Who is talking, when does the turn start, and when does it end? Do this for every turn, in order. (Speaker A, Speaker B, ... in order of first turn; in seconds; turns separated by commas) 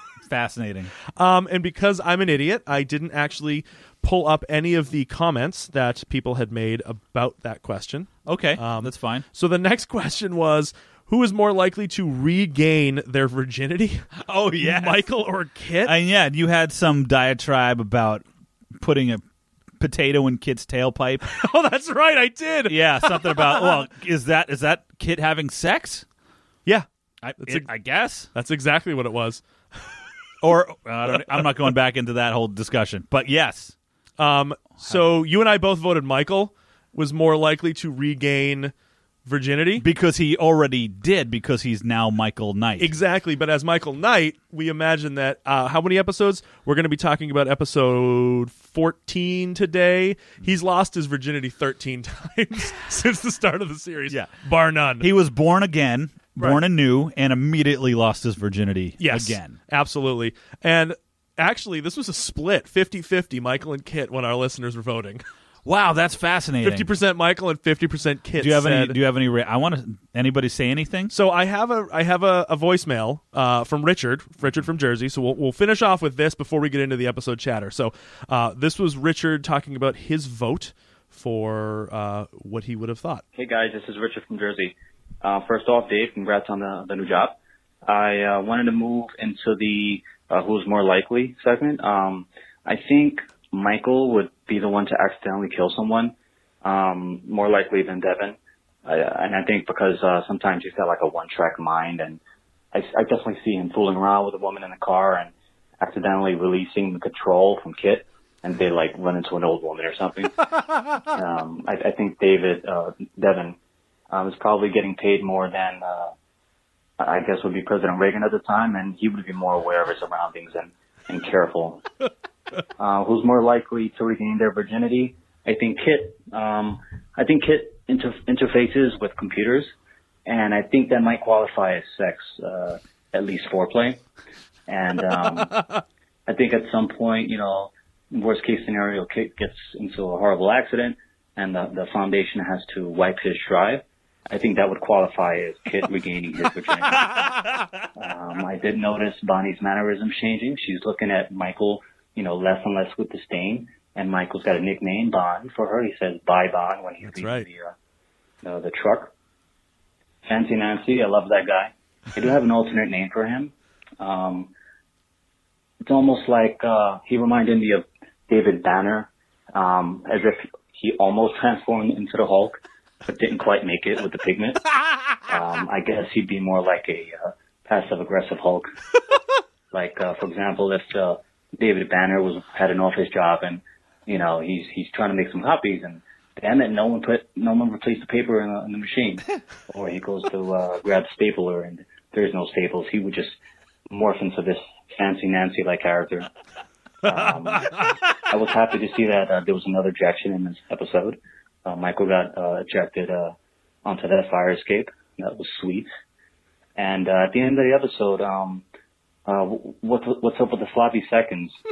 Speaker A: 0.3-0.9, Speaker B: 1.2-16.0, Speaker A: 8.3-9.3, Speaker A: 14.2-15.1, Speaker A: 15.8-18.2, Speaker A: 18.8-19.2, Speaker A: 19.8-21.3, Speaker B: 21.3-23.8, Speaker A: 22.7-26.1, Speaker A: 27.2-28.3, Speaker B: 27.4-27.7, Speaker B: 28.3-29.4, Speaker A: 30.4-33.7, Speaker B: 34.2-38.7, Speaker A: 34.8-35.1, Speaker B: 39.2-39.9, Speaker A: 39.8-42.9, Speaker B: 42.8-55.1, Speaker A: 55.0-59.6, Speaker B: 56.4-56.6, Speaker B: 59.0-65.2, Speaker A: 65.7-66.9, Speaker B: 66.6-69.0, Speaker A: 68.4-71.1, Speaker B: 71.1-83.2, Speaker C: 83.3-102.2, Speaker C: 102.7-110.5, Speaker C: 111.1-113.6, Speaker C: 114.1-116.1, Speaker C: 117.0-121.8, Speaker C: 122.8-129.7, Speaker C: 130.3-134.0, Speaker C: 134.7-135.7, Speaker C: 136.3-147.3, Speaker C: 148.0-157.8, Speaker B: 157.0-157.5, Speaker C: 158.4-159.1, Speaker C: 160.3-164.5, Speaker C: 165.8-174.7, Speaker C: 175.3-178.7, Speaker C: 179.7-193.4, Speaker C: 193.9-196.3, Speaker C: 197.0-205.9, Speaker C: 206.8-208.7, Speaker C: 209.3-211.6